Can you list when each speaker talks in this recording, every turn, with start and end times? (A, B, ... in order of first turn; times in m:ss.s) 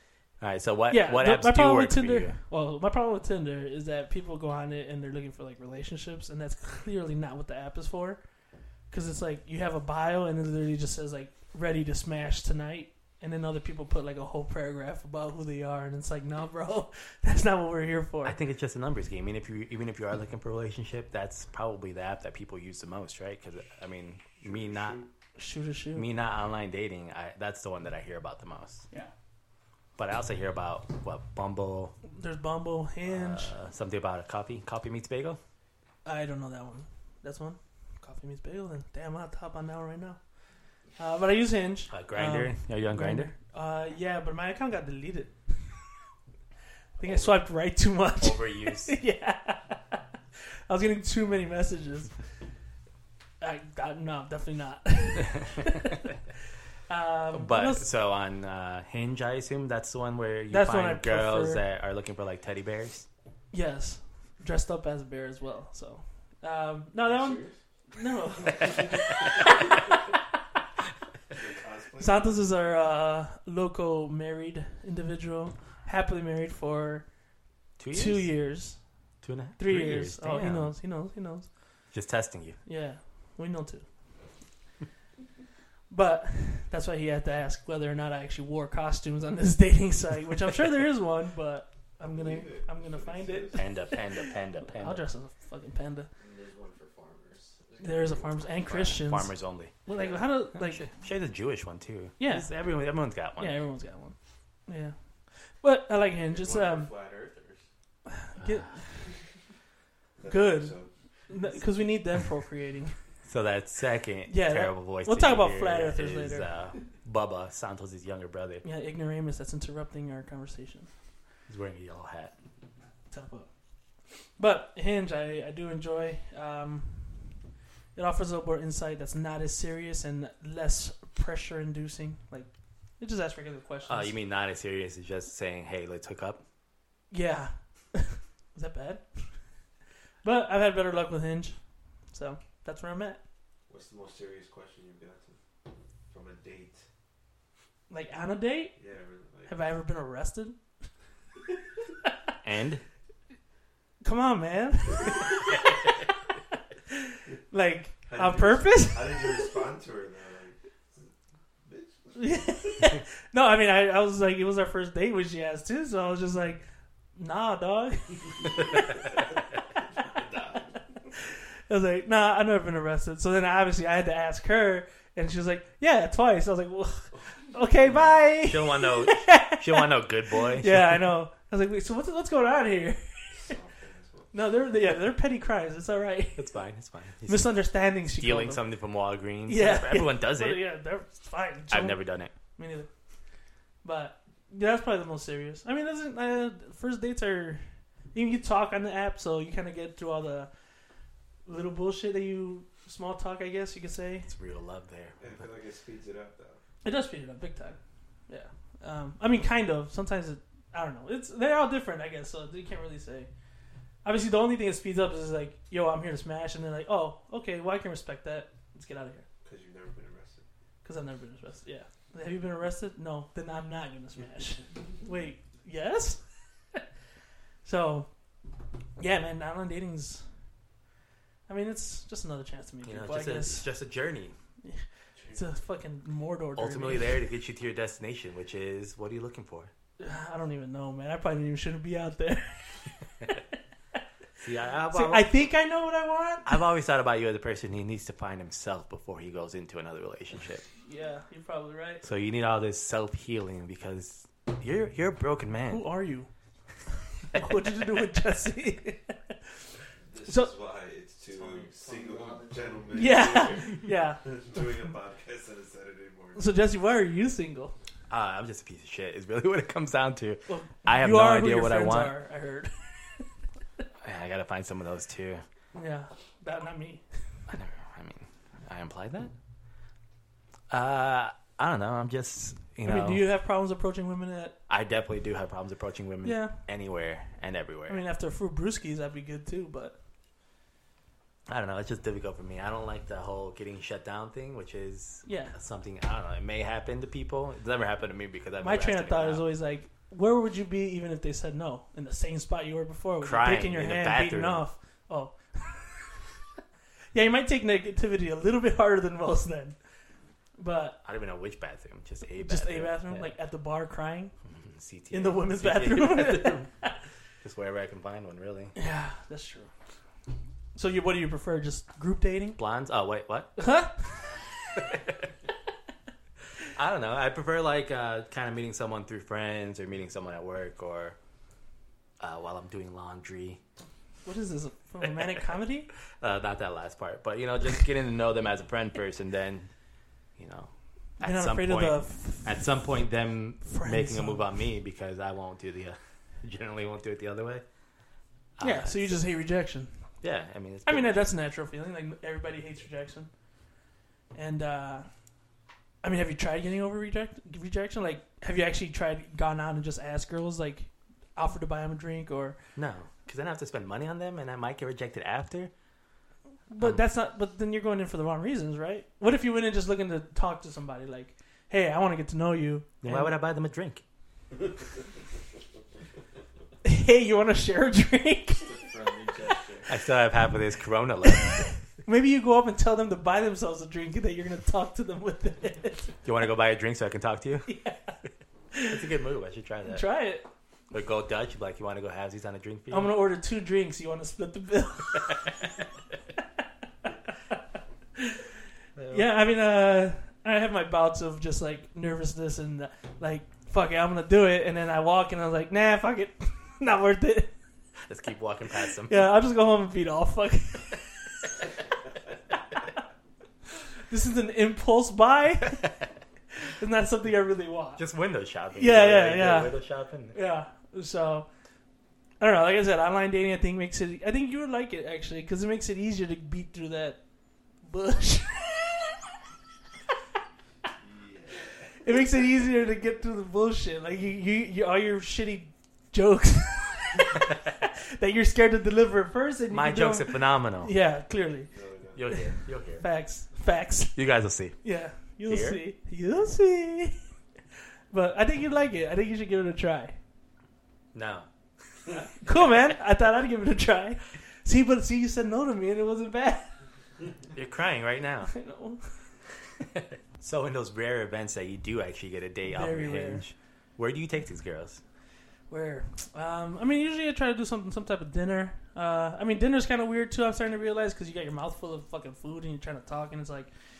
0:00.4-0:02.4 A
0:00.9-0:08.2 B
0:08.9-0:18.4 B
0:18.2-0:25.0 A
0:24.4-0:25.1 C
0:25.4-0:26.1 B
0:26.0-0:28.8 A
0:30.0-0:31.9 A
0:32.1-0:33.5 B
0:33.1-0:35.4 A
0:36.0-0:40.2 B
0:41.0-0:45.8 B
0:41.9-0:43.3 A
0:47.0-0:50.0 B
0:47.0-0:47.4 A
0:48.2-0:48.9 A
0:50.7-0:52.1 B
0:53.4-0:56.1 B
0:55.4-0:56.0 A
0:56.9-0:57.9 B
0:57.3-1:03.0 A
1:00.5-1:01.6 B
1:03.5-1:09.4 B
1:07.1-1:07.5 D
1:11.3-1:12.4 C
1:12.0-1:17.0 B
1:17.8-1:18.3 A
1:17.9-1:18.8 B
1:19.2-1:20.7 A
1:19.6-1:21.5 B
1:21.9-1:22.6 A
1:22.6-1:23.8 B
1:25.9-1:36.1 B
1:32.0-1:33.6 C
1:33.6-1:35.0 A
1:36.2-1:38.5 D
1:37.8-1:39.3 B
1:38.6-1:39.7 A
1:39.9-1:40.8 B
1:39.9-1:40.2 D
1:40.5-1:43.6 A
1:42.2-1:42.5 B
1:43.4-1:44.1 B
1:44.7-1:44.9 B
1:45.6-1:46.9 B
1:46.3-1:47.6 D
1:46.5-1:46.8 C
1:48.1-1:48.8 B
1:48.4-1:48.8 A
1:50.2-1:50.9 C
1:50.3-1:50.7 B
1:51.3-1:53.0 B
1:53.3-1:58.6 A
1:54.3-1:56.5 B
1:58.6-2:00.9 B
2:01.5-2:02.3 A
2:03.1-2:03.5 B
2:04.4-2:07.2 B
2:07.9-2:14.1 B
2:13.8-2:16.4 A
2:17.1-2:19.2 B
2:20.2-2:21.6 B
2:22.1-2:23.2 B
2:23.7-2:25.4 C
2:26.1-2:26.8 C
2:27.9-2:28.8 B
2:28.8-2:29.5 C
2:29.5-2:30.6 B
2:32.4-2:32.8 A
2:34.0-2:35.9 B
2:36.9-2:39.6 B
2:38.1-2:41.1 C
2:41.6-2:42.9 C
2:42.2-2:46.6 B
2:47.2-2:49.2 B
2:50.1-2:50.7 C
2:51.7-3:03.5 B
2:57.9-3:01.0 A
3:03.3-3:04.4 C
3:04.3-3:06.4 B
3:06.4-3:07.5 A
3:07.3-3:08.6 B
3:08.1-3:10.6 A
3:09.5-3:12.0 B
3:11.7-3:12.3 A
3:12.6-3:12.9 B
3:13.8-3:20.5 B
3:21.4-3:24.3 B
3:24.2-3:25.4 A
3:25.2-3:26.6 C
3:26.8-3:33.3 B
3:34.0-3:39.2 B
3:39.4-3:40.4 C
3:40.8-3:46.2 B
3:47.6-3:48.1 B
3:49.0-3:50.2 B
3:51.5-3:53.6 B
3:52.8-3:54.4 A
3:54.6-3:57.2 B
3:56.6-3:59.7 A
4:00.0-4:02.7 B
4:04.4-4:05.3 A
4:04.9-4:06.5 B
4:06.4-4:10.6 A
4:10.8-4:12.0 B
4:12.0-4:15.8 A
4:15.7-4:16.3 B
4:17.3-4:19.4 B
4:20.0-4:26.5 C
4:21.3-4:23.8 D
4:22.9-4:24.2 B
4:26.3-4:27.7 B
4:28.1-4:32.1 A
4:30.5-4:33.2 B
4:34.0-4:35.4 A
4:35.7-4:37.0 B
4:37.5-4:39.3 A
4:40.7-4:43.2 A
4:42.8-4:44.6 B
4:44.7-4:48.0 A
4:46.2-4:46.5 B
4:47.9-4:50.0 B
4:51.5-4:59.4 A
4:55.2-4:55.5 B
4:58.6-5:06.2 B
5:03.2-5:04.6 A
5:07.1-5:09.8 B
5:10.6-5:11.0 B
5:11.0-5:13.3 A
5:12.4-5:14.3 B
5:14.4-5:16.7 A
5:15.1-5:16.9 B
5:17.4-5:18.7 A
5:18.7-5:19.7 B
5:20.7-5:22.6 B
5:22.6-5:23.6 A
5:23.6-5:24.3 B
5:24.8-5:25.2 A
5:26.7-5:31.2 A
5:32.2-5:33.6 A
5:34.2-5:35.9 B
5:36.2-5:39.7 A
5:40.4-5:47.6 A
5:41.2-5:42.6 B
5:43.6-5:44.5 B
5:48.6-5:49.2 A
5:48.6-5:49.9 B
5:50.2-5:51.3 A
5:50.8-5:53.3 B
5:54.3-5:55.1 B
5:56.0-6:02.6 B
6:02.8-6:05.7 A
6:06.7-6:13.3 B
6:13.0-6:14.0 A
6:16.8-6:18.8 B
6:18.6-6:19.9 D
6:19.9-6:21.7 A
6:21.4-6:26.2 B
6:26.2-6:27.7 A
6:27.7-6:28.2 B
6:28.7-6:29.0 B
6:28.9-6:30.0 A
6:29.9-6:30.4 B
6:30.9-6:33.1 A
6:32.9-6:35.6 B
6:39.0-6:39.3 A
6:39.1-6:47.5 B
6:48.1-6:49.2 A
6:49.1-6:51.0 B
6:54.1-6:55.9 B
6:56.6-6:58.0 B
6:58.0-7:00.3 A
6:58.7-6:59.7 B
7:00.3-7:01.5 B
7:02.4-7:07.2 B
7:07.8-7:09.3 B
7:11.0-7:11.9 C
7:12.0-7:21.7 B
7:19.7-7:20.9 A
7:21.7-7:22.3 C
7:22.1-7:23.0 A
7:23.0-7:24.2 B
7:24.2-7:24.8 A
7:24.8-7:27.2 B
7:25.4-7:25.8 A
7:28.1-7:30.1 B
7:31.1-7:31.5 A
7:32.4-7:36.7 B
7:37.5-7:38.5 A
7:38.5-7:39.1 B
7:40.0-7:45.0 A
7:42.6-7:43.4 B
7:45.7-7:53.7 B